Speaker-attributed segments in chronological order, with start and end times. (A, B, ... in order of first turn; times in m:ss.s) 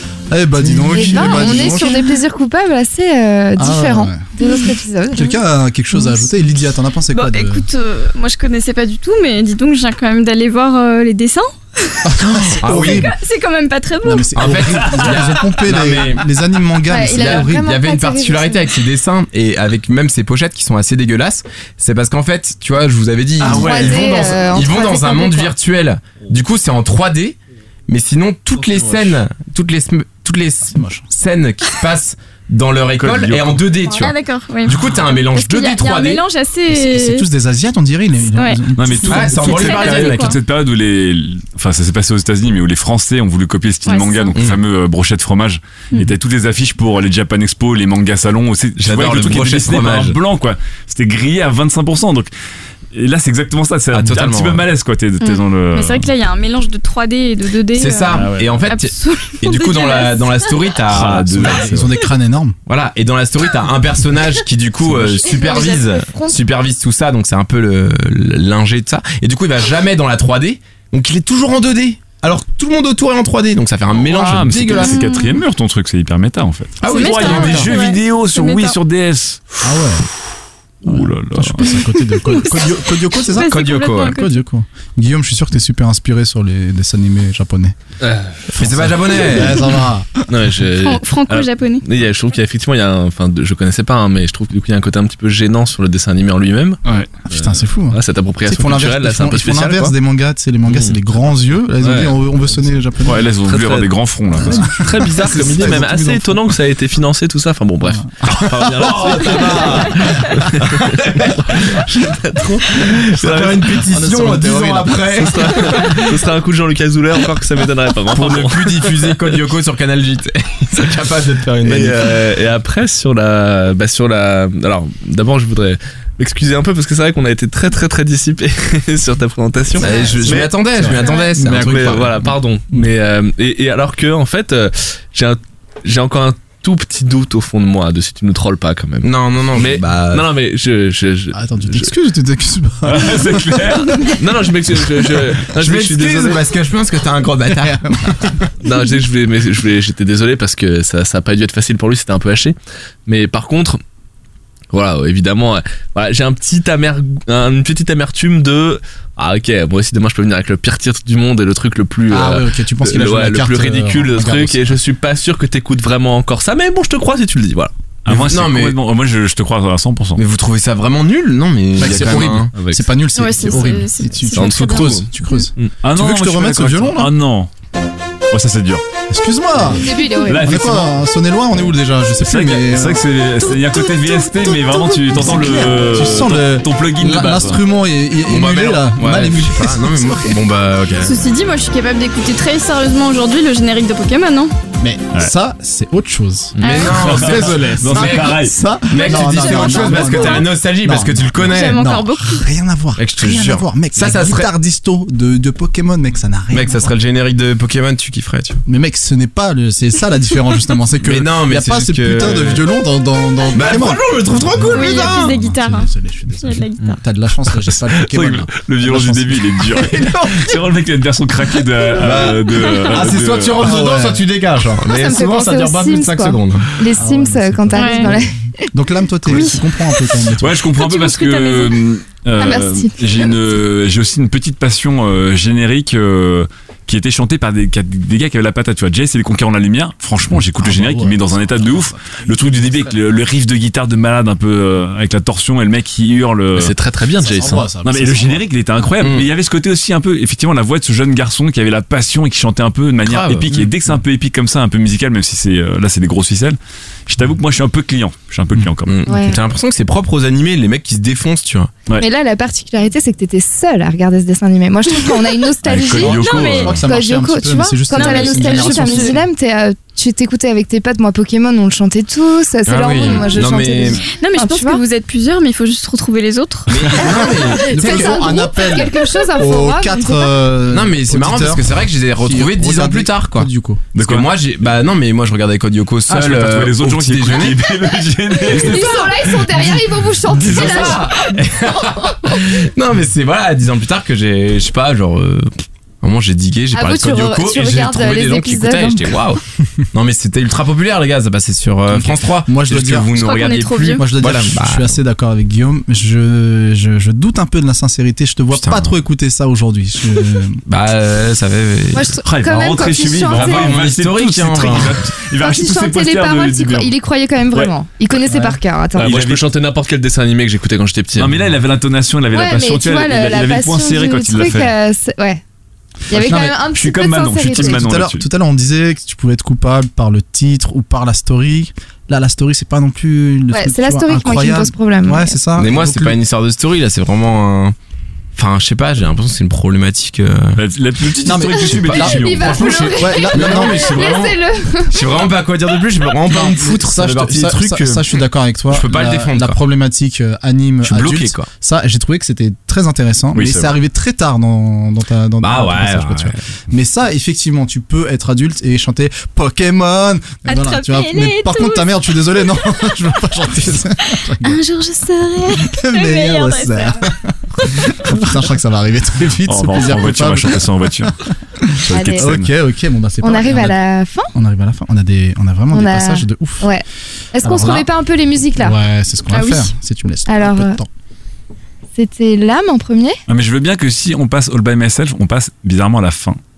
0:00.3-0:02.1 A
0:00.6-0:05.4 B
0:01.0-0:01.8 C
0:03.6-0:04.3 A
0:04.4-0:04.7 C
0:05.1-0:07.6 A
0:07.1-0:12.0 C
0:12.0-0:13.1 A
0:12.5-0:13.1 D
0:13.0-0:14.5 C
0:14.0-0:17.7 A
0:14.3-0:16.3 D
0:16.9-0:18.6 B
0:16.9-0:27.4 D
0:23.4-0:24.0 E
0:23.4-0:25.5 B
0:27.9-0:36.2 D
0:30.7-0:31.0 A
0:33.0-0:33.6 E
0:33.9-0:37.3 C
0:36.7-0:39.6 A
0:38.3-0:38.7 C
0:38.8-0:52.3 E
0:39.1-0:40.4 D
0:39.5-0:40.4 C
0:43.8-0:44.4 C
0:44.3-0:44.6 D
0:48.8-0:50.2 D
0:52.9-0:56.1 E
0:53.9-0:54.7 D
0:55.2-1:00.3 C
0:57.7-1:01.8 D
0:58.1-0:58.5 E
1:00.9-1:02.0 E
1:01.3-1:02.6 A
1:02.7-1:15.0 D
1:04.8-1:05.1 E
1:05.2-1:06.4 B
1:05.3-1:05.6 C
1:14.0-1:19.4 E
1:14.7-1:15.4 C
1:16.8-1:17.8 D
1:16.8-1:18.8 C
1:19.6-1:20.0 A
1:20.8-1:21.8 E
1:20.9-1:27.8 A
1:22.3-1:24.4 C
1:23.4-1:24.2 D
1:28.0-1:28.4 F
1:28.5-1:30.2 A
1:28.5-1:29.7 D
1:30.3-1:36.8 F
1:30.8-1:31.8 C
1:37.2-1:43.2 A
1:37.3-1:39.9 F
1:40.7-1:41.0 F
1:41.8-1:42.2 F
1:43.0-1:44.7 E
1:43.4-1:43.9 F
1:44.4-1:46.5 A
1:44.5-1:53.8 F
1:47.8-1:50.6 A
1:48.7-1:51.7 D
1:52.8-1:56.1 D
1:53.6-1:55.4 A
1:55.1-1:59.4 F
1:58.1-2:02.1 D
2:01.6-2:10.5 F
2:09.8-2:12.1 D
2:10.0-2:12.8 A
2:10.9-2:11.3 C
2:11.4-2:21.9 F
2:19.0-2:20.2 D
2:21.3-2:24.2 A
2:22.8-2:24.2 E
2:24.2-2:26.4 F
2:25.5-2:28.4 D
2:27.6-2:28.3 A
2:28.6-2:32.6 F
2:33.1-2:33.8 F
2:34.7-2:47.7 F
2:42.1-2:44.8 A
2:48.0-2:50.2 E
2:48.1-2:48.8 D
2:50.2-2:52.5 D
2:51.8-2:57.1 A
2:51.8-2:52.8 F
2:53.1-2:55.5 C
2:54.3-2:55.7 F
2:55.8-2:57.5 E
2:58.3-2:58.8 E
2:59.1-2:59.8 A
2:59.8-3:00.4 B
3:00.2-3:01.0 E
3:00.4-3:03.0 A
3:02.2-3:07.6 E
3:05.1-3:10.4 A
3:08.2-3:11.2 D
3:11.0-3:14.5 C
3:14.8-3:26.9 A
3:16.6-3:17.1 C
3:16.6-3:21.8 D
3:16.8-3:18.6 E
3:19.0-3:20.5 C
3:21.5-3:22.5 C
3:23.0-3:24.5 D
3:26.5-3:28.6 D
3:28.6-3:39.9 A
3:31.0-3:32.6 D
3:33.5-3:35.3 D
3:34.7-3:37.0 C
3:37.9-3:43.8 E
3:39.8-3:40.5 D
3:41.9-3:46.7 D
3:43.6-3:44.2 A
3:44.8-3:48.3 B
3:46.9-3:50.7 A
3:47.7-3:48.2 C
3:50.4-4:06.7 E
3:50.7-3:51.8 C
3:52.4-3:53.3 B
4:00.5-4:02.9 A
4:06.5-4:07.6 F
4:07.2-4:08.5 A
4:07.8-4:19.1 E
4:09.0-4:09.3 D
4:13.0-4:13.6 D
4:18.8-4:21.7 D
4:19.1-4:19.4 B
4:22.0-4:34.8 B
4:25.6-4:26.7 E
4:25.7-4:26.7 D
4:26.0-4:26.8 C
4:26.5-4:29.2 A
4:27.9-4:29.2 C
4:32.6-4:34.0 D
4:34.0-4:36.8 C
4:36.7-4:38.5 D
4:36.9-4:43.8 A
4:37.0-4:40.3 B
4:40.7-4:47.7 D
4:43.9-4:44.3 E
4:46.1-4:49.6 E
4:48.3-4:51.4 B
4:50.3-4:59.4 D
4:50.4-4:51.0 E
4:51.9-4:52.4 B
4:56.7-4:59.1 B
4:59.9-5:05.0 D
5:01.9-5:03.1 A
5:03.1-5:04.0 C
5:04.0-5:10.6 A
5:08.5-5:08.9 D
5:10.6-5:12.2 D
5:11.9-5:13.8 B
5:12.2-5:16.9 E
5:13.3-5:15.1 D
5:15.3-5:19.1 B
5:18.3-5:18.6 A
5:19.0-5:19.5 E
5:19.0-5:21.5 F
5:21.2-5:24.7 E
5:22.3-5:25.4 B
5:26.1-5:27.8 B
5:26.1-5:26.6 A
5:26.2-5:28.2 E
5:27.5-5:36.2 A
5:33.5-5:35.4 B
5:35.6-5:37.8 D
5:38.3-5:40.6 D
5:40.6-5:42.8 E
5:41.2-5:44.0 A
5:41.4-5:48.1 D
5:41.9-5:45.0 B
5:46.2-6:04.6 A
5:48.7-5:49.6 D
5:50.8-5:51.5 D
5:53.3-5:53.7 E
5:55.4-5:56.4 D
6:00.4-6:02.9 C
6:04.4-6:07.1 C
6:05.6-6:10.7 A
6:09.5-6:11.2 E
6:11.6-6:13.8 A
6:11.8-6:12.5 E
6:11.9-6:12.3 B
6:13.2-6:14.3 B
6:14.3-6:16.7 A
6:15.7-6:18.8 B
6:17.4-6:17.9 A
6:18.6-6:20.9 A
6:19.3-6:19.6 C
6:20.3-6:20.8 B
6:22.0-6:23.2 B
6:23.3-6:26.4 E